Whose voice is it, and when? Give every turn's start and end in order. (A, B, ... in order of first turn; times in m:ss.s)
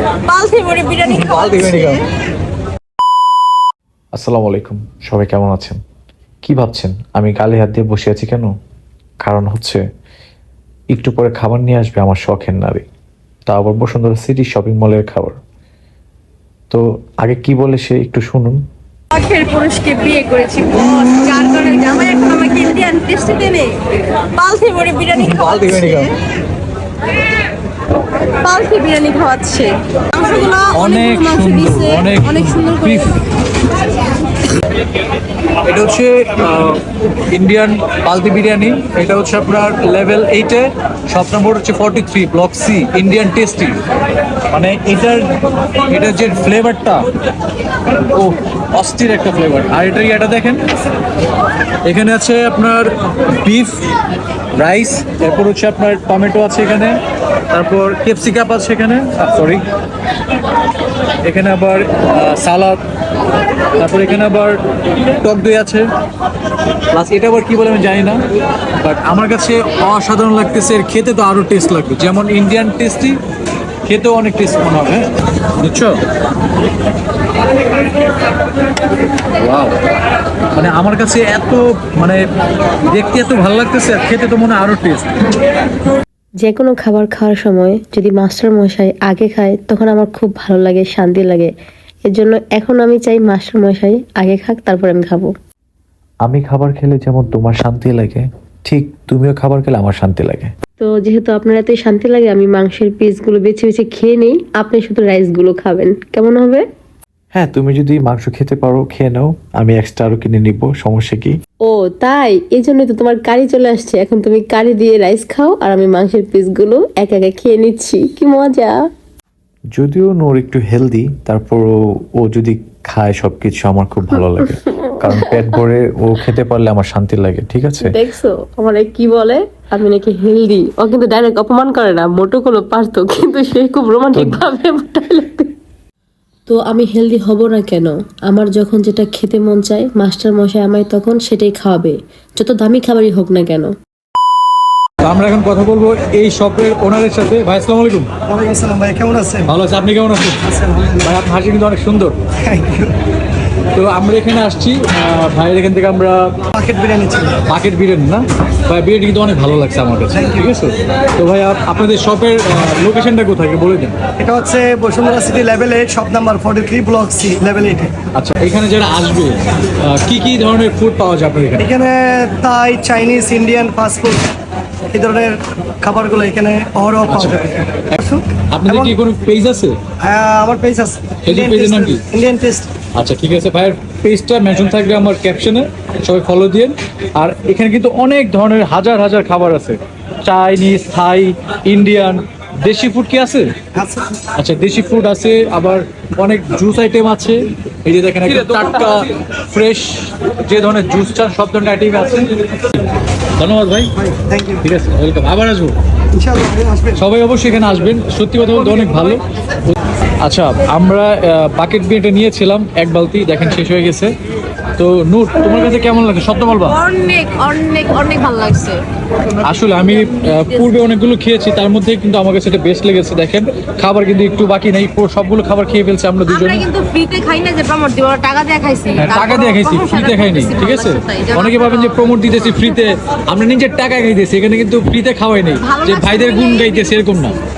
0:00.2-0:02.0 A
0:01.1-0:02.0 B
0:04.1-0:05.8 C
0:06.4-0:08.5 C
0:09.2-0:09.8 C
0:10.9-0:12.8 C
0:13.5-0:15.4 C
0:16.7-0:18.6 C
0:19.1-0:23.8 A
0:24.4-0:26.1 A
0:25.1-0:26.1 B
0:28.4-0:33.1 A
0:30.7-0:33.2 B
0:35.6-0:36.8 B
0:37.3-0:43.8 B
0:44.5-0:45.3 B
0:45.9-0:47.0 B
0:48.1-0:50.7 B
0:51.8-0:52.9 B
0:53.4-0:53.9 B
0:54.6-0:57.0 B
0:57.5-0:59.6 B
1:01.2-1:02.8 B
1:03.8-1:04.6 B
1:05.2-1:05.9 B
1:06.9-1:08.2 B
1:08.8-1:13.2 B
1:13.8-1:16.0 B
1:19.4-1:19.7 B
1:20.5-1:22.2 B
1:22.9-1:25.2 B
1:26.4-1:31.5 D
1:32.1-1:35.3 D
1:36.2-1:40.5 C
1:40.8-1:46.6 D
1:47.3-1:51.4 C
1:51.6-1:58.8 D
1:59.7-2:07.9 C
2:04.9-2:05.4 D
2:07.8-2:15.5 D
2:14.1-2:14.4 C
2:16.5-2:23.7 D
2:25.0-2:28.1 B
2:28.3-2:29.5 E
2:29.4-2:30.4 B
2:30.4-2:31.1 E
2:31.0-2:32.1 B
2:32.4-2:32.9 E
2:33.7-2:36.3 B
2:36.5-2:37.4 E
2:37.4-2:43.9 B
2:40.1-2:40.4 E
2:44.2-2:47.9 E
2:48.1-2:51.7 B
2:51.6-2:54.2 E
2:54.9-2:58.9 E
2:57.1-2:58.0 B
2:58.5-2:59.7 B
3:00.0-3:02.7 E
3:01.2-3:02.0 B
3:02.9-3:13.5 B
3:13.7-3:14.1 E
3:14.4-3:22.3 B
3:23.4-3:23.9 B
3:24.0-3:24.6 E
3:24.6-3:25.7 B
3:26.1-3:27.0 E
3:27.0-3:34.1 B
3:34.8-3:36.8 B
3:36.7-3:38.8 A
3:39.4-3:46.7 B
3:40.0-3:40.6 A
3:46.3-3:52.2 A
3:49.0-3:57.4 B
3:55.6-3:57.3 A